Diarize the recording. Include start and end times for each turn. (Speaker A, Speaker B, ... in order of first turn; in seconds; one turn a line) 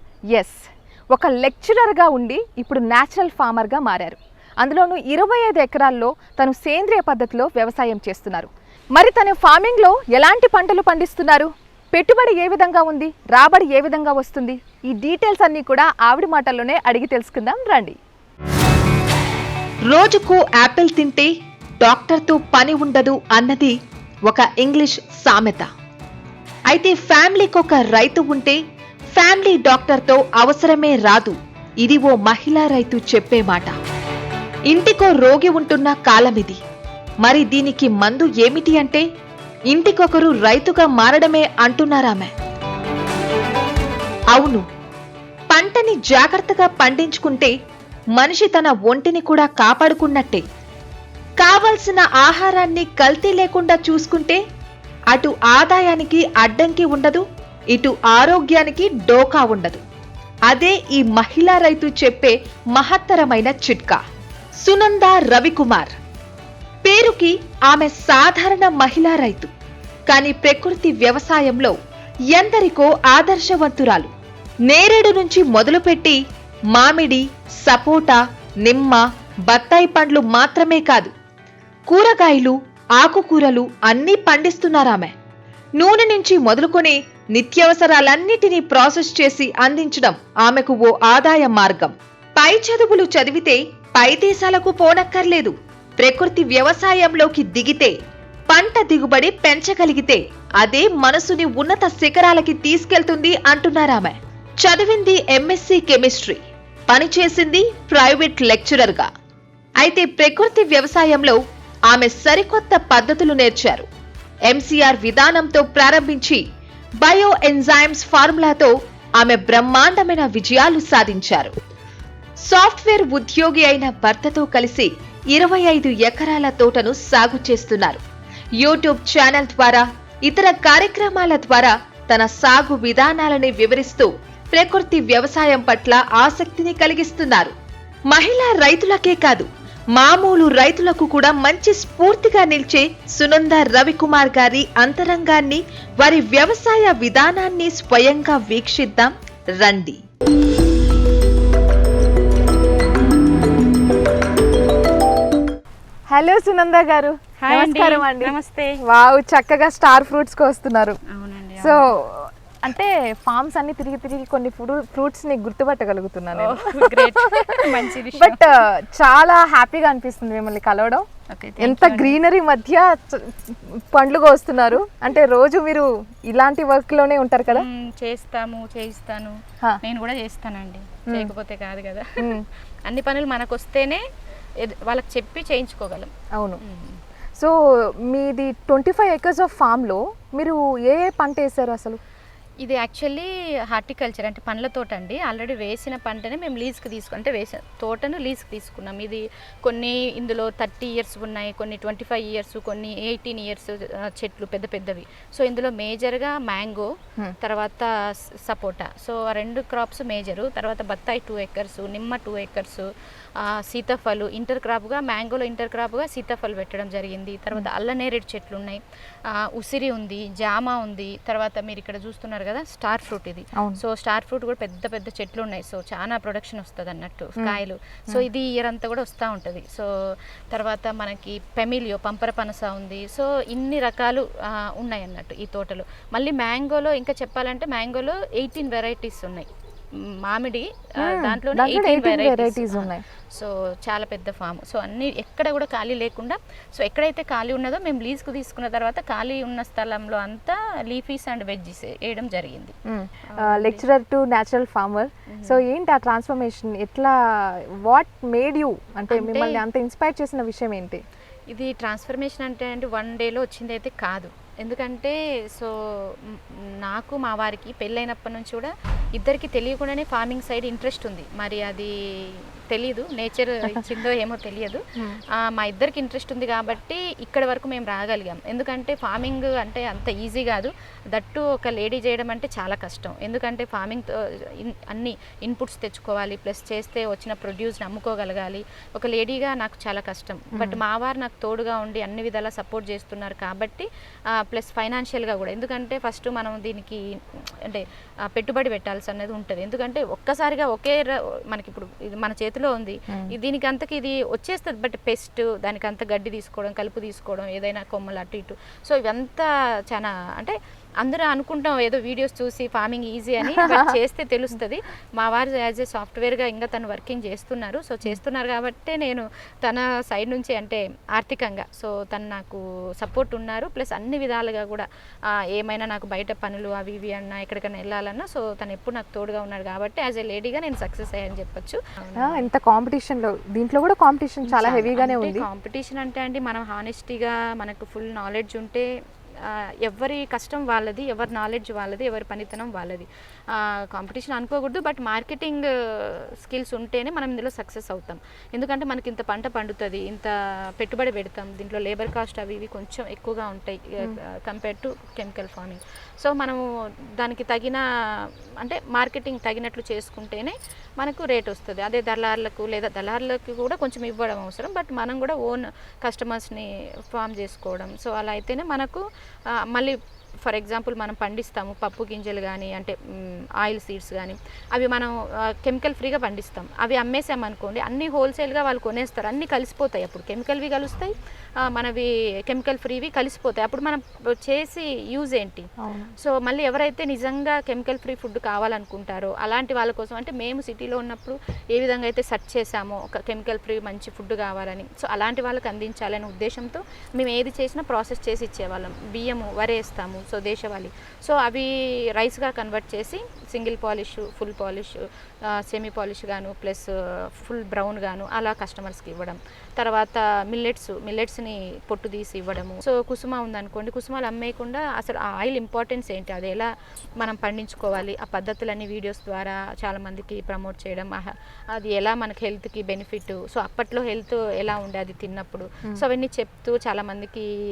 Speaker A: 0.3-18.0
Speaker B: 19.9-25.7
Speaker B: 26.7-28.6
Speaker B: 29.1-33.8
Speaker B: 34.7-36.6
Speaker B: 37.2-39.0
Speaker B: 39.7-42.3
Speaker B: 44.3-44.6
Speaker B: 45.5-47.5
Speaker B: 48.1-50.4
Speaker B: 51.4-54.4
Speaker B: 55.1-59.8
Speaker B: 60.5-64.0
Speaker B: 64.6-65.9
Speaker B: 66.8-69.5
Speaker B: 70.1-71.7
Speaker B: 72.3-74.1
Speaker B: 74.7-76.2
Speaker B: 76.7-81.1
Speaker B: 81.9-85.1
Speaker B: 85.8-98.0
Speaker B: 98.5-109.1
Speaker B: 109.8-113.8
Speaker B: 114.5-116.4
Speaker B: 117.0-121.5
Speaker B: 122.4-128.0
Speaker B: 128.6-137.5
Speaker B: 138.1-150.0
Speaker A: 156.1-161.0
Speaker C: 157.4-158.8
Speaker C: 161.1-161.9
Speaker A: 161.6-171.1
Speaker C: 166.3-168.4
Speaker C: 171.3-172.2
Speaker A: 171.6-177.7
Speaker C: 177.5-184.0
Speaker A: 182.2-182.4
Speaker C: 184.6-187.0
Speaker A: 186.3-186.6
Speaker A: 188.1-192.0
Speaker C: 192.6-253.8
Speaker A: 241.0-243.0
Speaker A: 252.9-261.0
Speaker C: 255.3-255.6
Speaker C: 259.1-259.6
Speaker C: 261.5-332.4
Speaker A: 290.5-290.8
Speaker A: 313.4-313.9
Speaker A: 332.2-335.4
Speaker C: 334.4-338.9
Speaker C: 339.4-356.6
Speaker C: 357.2-357.8
Speaker C: 358.6-427.5
Speaker A: 385.8-386.1